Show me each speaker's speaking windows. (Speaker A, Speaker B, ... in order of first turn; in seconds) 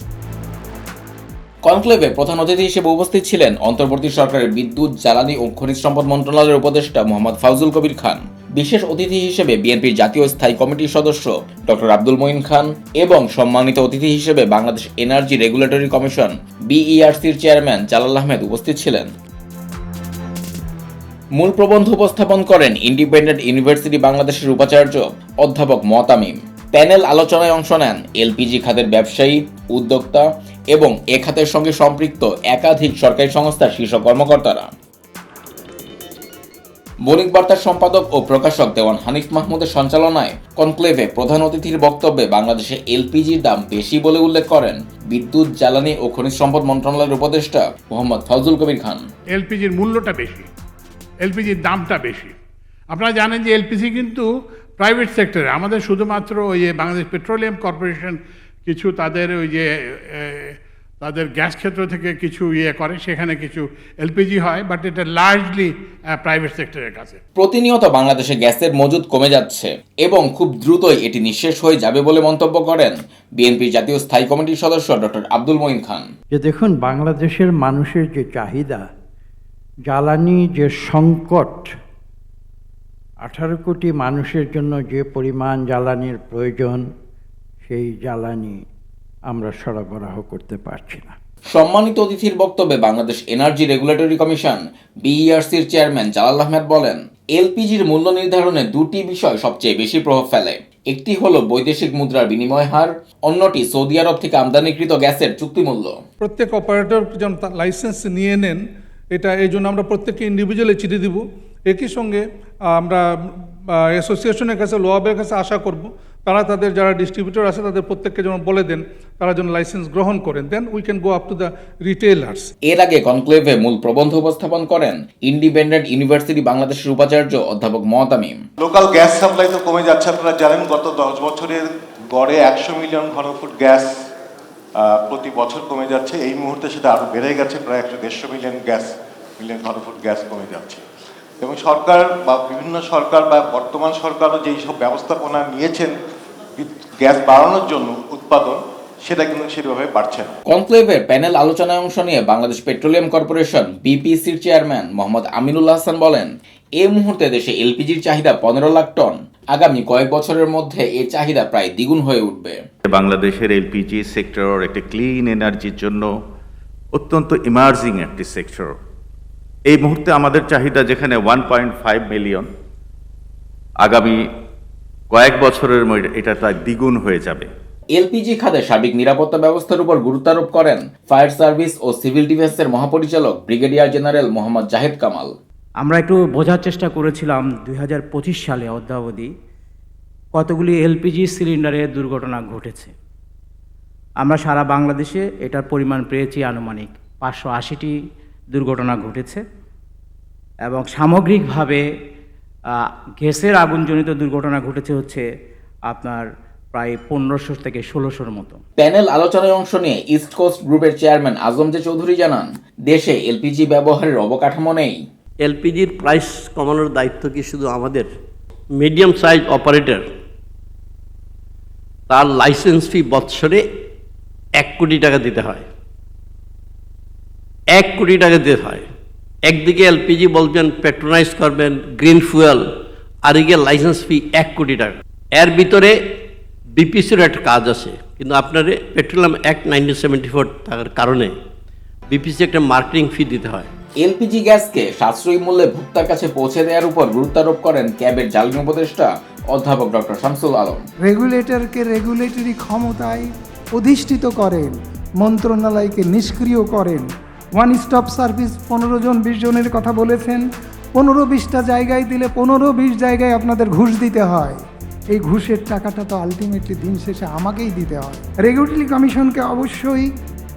Speaker A: 1.6-19.1, 21.4-34.7, 37.1-49.0, 67.4-76.1, 91.5-105.9, 122.7-128.4, 150.5-162.6, 177.9-185.3, 208.8-214.9, 244.0-250.8
Speaker B: 49.3-50.5, 51.2-52.3, 52.9-54.3, 54.8-67.2
Speaker C: 76.3-78.9, 79.9-81.7, 83.2-86.9, 87.7-88.6, 89.3-91.2
Speaker D: 106.2-108.6, 109.1-112.2, 112.7-122.5
Speaker E: 128.6-133.9, 134.8-140.8, 141.4-146.0, 146.6-150.3
Speaker F: 162.9-166.1, 166.9-168.8, 169.7-172.5, 173.8-174.3, 175.1-177.5
Speaker G: 185.8-189.3, 190.3-192.9, 194.2-198.0, 198.5-199.4, 200.7-201.8, 203.2-205.2, 205.9-208.6
Speaker H: 215.4-218.1, 218.7-220.1, 222.1-223.6, 224.6-225.7, 227.7-228.8, 229.5-232.7, 233.2-241.3, 242.1-243.7
Speaker I: 251.0-260.4, 261.0-264.6, 265.1-270.1